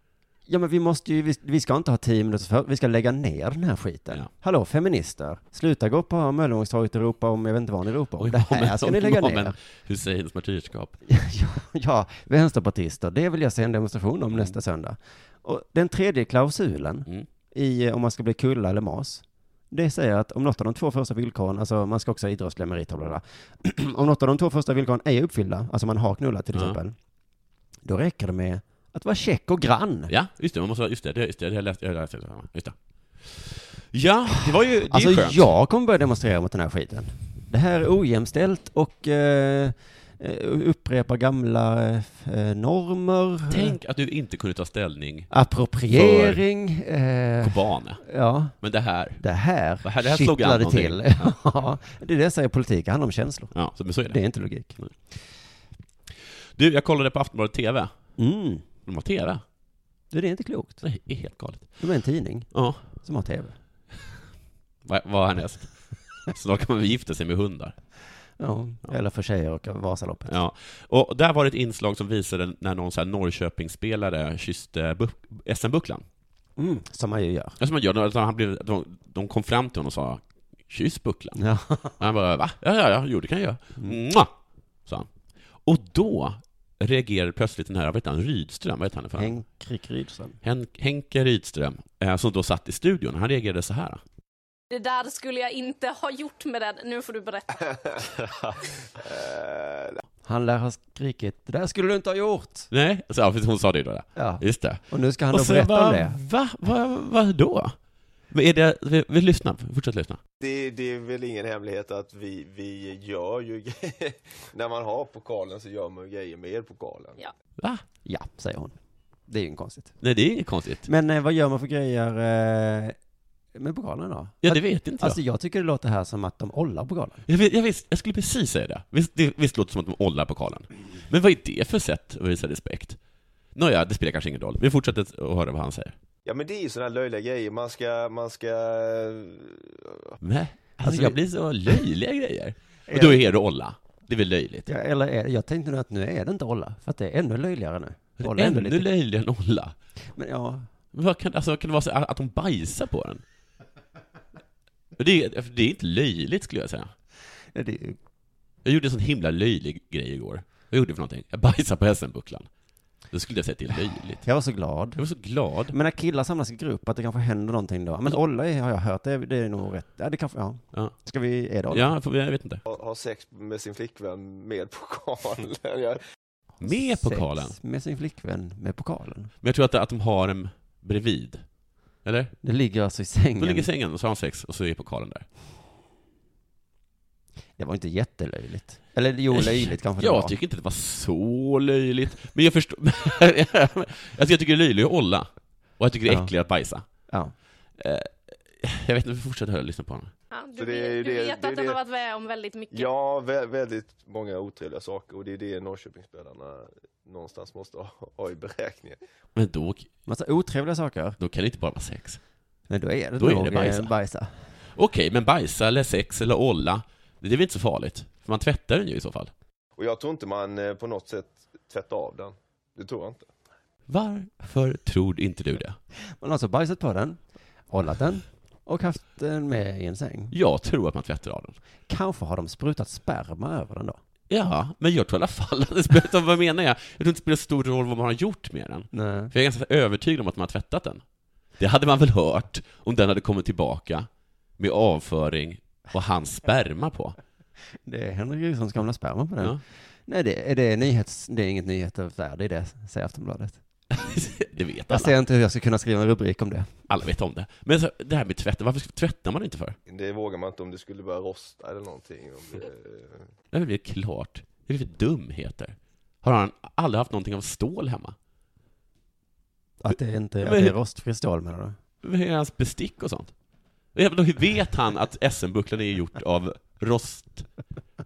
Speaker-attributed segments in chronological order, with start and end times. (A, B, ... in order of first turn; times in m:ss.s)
0:00.5-0:09.6 A
0:08.2-0:11.0 B
0:11.1-0:27.0 A
0:26.5-0:26.8 B
0:27.8-0:30.1 A
0:30.1-0:35.4 B
0:34.9-0:43.8 A
0:43.5-0:45.3 B
0:45.3-0:48.6 A
0:45.9-0:46.4 B
0:47.4-0:48.0 B
0:48.6-0:49.2 B
0:49.2-0:53.5 A
0:49.8-0:51.4 B
0:53.5-0:54.2 B
0:54.1-0:54.8 A
0:56.6-0:57.9 B
0:58.2-0:58.6 A
0:58.8-0:59.4 B
1:00.1-1:00.8 A
1:00.8-1:01.7 B
1:01.8-1:03.6 A
1:02.5-1:02.8 B
1:04.8-1:05.7 B
1:06.3-1:07.8 B
1:08.4-1:10.4 A
1:10.3-1:16.0 B
1:16.6-1:17.6 A
1:17.6-1:21.4 B
1:21.4-1:22.0 A
1:22.0-1:24.3 B
1:25.6-1:29.3 B
1:29.2-1:30.4 A
1:30.4-1:34.0 B
1:34.7-1:38.0 C
1:38.4-1:40.0 D
1:40.2-1:42.7 A
1:42.7-1:47.8 B
1:44.2-1:46.2 A
1:48.3-1:50.2 B
1:50.4-1:57.2 D
1:58.0-1:58.8 A
1:59.3-2:00.0 A
2:00.0-2:00.9 B
2:00.9-2:03.0 A
2:03.6-2:07.2 A
2:04.4-2:05.2 B
2:07.3-2:13.0 B
2:13.6-2:16.0 B
2:16.3-2:20.1 D
2:20.2-2:24.7 B
2:20.8-2:21.2 A
2:22.9-2:23.3 A
2:24.7-2:28.9 A
2:28.2-2:29.8 B
2:30.2-2:30.7 A
2:30.9-2:33.2 B
2:35.0-2:36.9 B
2:37.5-2:38.0 A
2:38.6-2:42.5 B
2:43.1-2:44.2 B
2:44.2-2:45.0 A
2:45.0-2:45.8 B
2:45.7-2:51.9 A
2:51.7-2:52.6 B
2:52.7-2:56.0 D
2:56.6-2:57.6 B
2:56.6-2:59.3 A
2:59.4-3:01.4 B
3:02.0-3:02.3 B
3:02.4-3:03.7 A
3:03.4-3:05.3 B
3:07.6-3:10.4 A
3:09.3-3:16.8 B
3:17.1-3:17.3 A
3:17.8-3:20.1 B
3:20.3-3:22.9 C
3:20.6-3:21.8 D
3:22.7-3:29.0 D
3:29.4-3:29.9 B
3:30.1-3:31.2 A
3:31.2-3:32.2 B
3:32.7-3:34.3 A
3:33.2-3:33.9 B
3:34.7-3:39.3 B
3:39.8-3:43.3 D
3:43.9-3:45.8 B
3:46.2-3:47.2 A
3:47.7-3:50.4 A
3:50.3-3:51.6 B
3:51.9-3:54.0 A
3:54.3-4:01.0 B
3:58.9-3:59.3 A
4:01.6-4:07.2 B
4:07.8-4:13.6 A
4:13.9-4:15.1 B
4:14.9-4:16.8 A
4:16.9-4:19.8 B
4:19.9-4:23.3 D
4:23.5-4:28.2 B
4:29.8-4:31.8 A
4:30.4-4:30.8 B
4:32.0-4:33.3 B
4:33.9-4:37.5 B